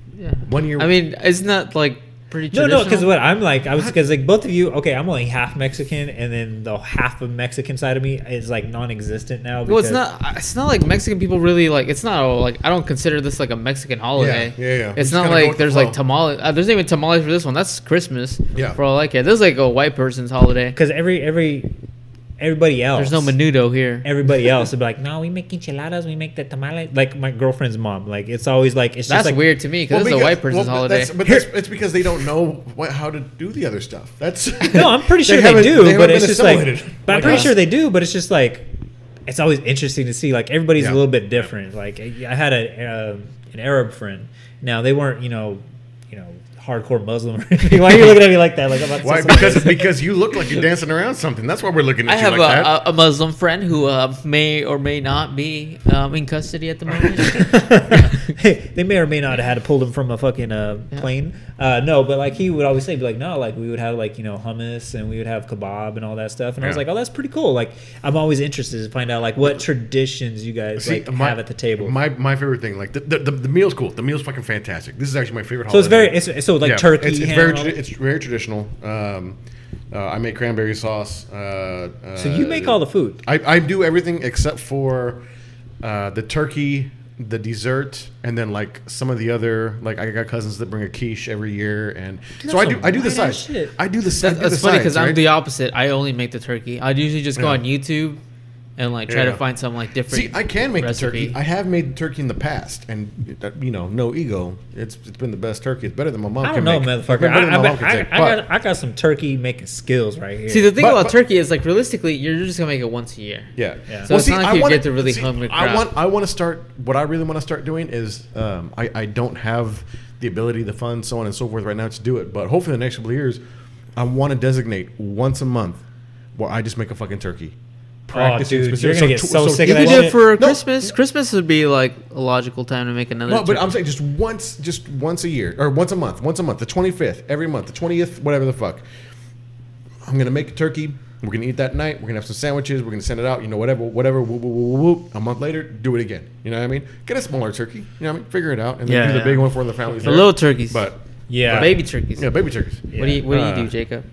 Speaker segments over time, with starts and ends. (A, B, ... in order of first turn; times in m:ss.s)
0:00.2-0:03.1 A
0:00.4-0:00.9 B
0:02.5-0:10.0 C
0:09.7-0:20.8 A
0:14.2-0:16.0 B
0:20.8-0:21.7 C
0:22.4-0:23.3 C
0:23.0-0:24.1 A
0:24.0-0:29.4 C
0:29.1-0:31.2 A
0:29.9-0:37.6 B
0:34.7-0:38.7 C
0:37.2-0:37.5 A
0:39.3-0:49.9 C
0:40.8-0:41.5 B
0:49.0-0:52.8 B
0:52.1-0:58.1 A
0:57.3-1:12.0 C
1:10.8-1:19.4 B
1:15.7-1:17.7 C
1:19.9-1:25.2 B
1:22.2-1:23.2 C
1:25.8-1:35.2 B
1:32.4-1:33.8 C
1:34.2-1:38.2 A
1:37.4-1:37.6 B
1:38.8-1:41.4 A
1:39.1-1:39.4 B
1:40.1-1:48.4 B
1:46.4-1:50.7 C
1:50.5-1:53.5 A
1:50.8-1:51.2 B
1:53.6-2:03.4 B
1:54.1-1:55.9 A
2:04.0-2:05.8 B
2:06.4-2:07.6 B
2:08.1-2:10.9 B
2:08.1-2:10.2 C
2:09.6-2:13.7 A
2:13.3-2:18.8 B
2:20.0-2:33.7 B
2:28.9-2:30.9 A
2:31.3-2:31.7 C
2:31.4-2:32.3 A
2:32.9-2:33.2 C
2:33.0-2:34.1 A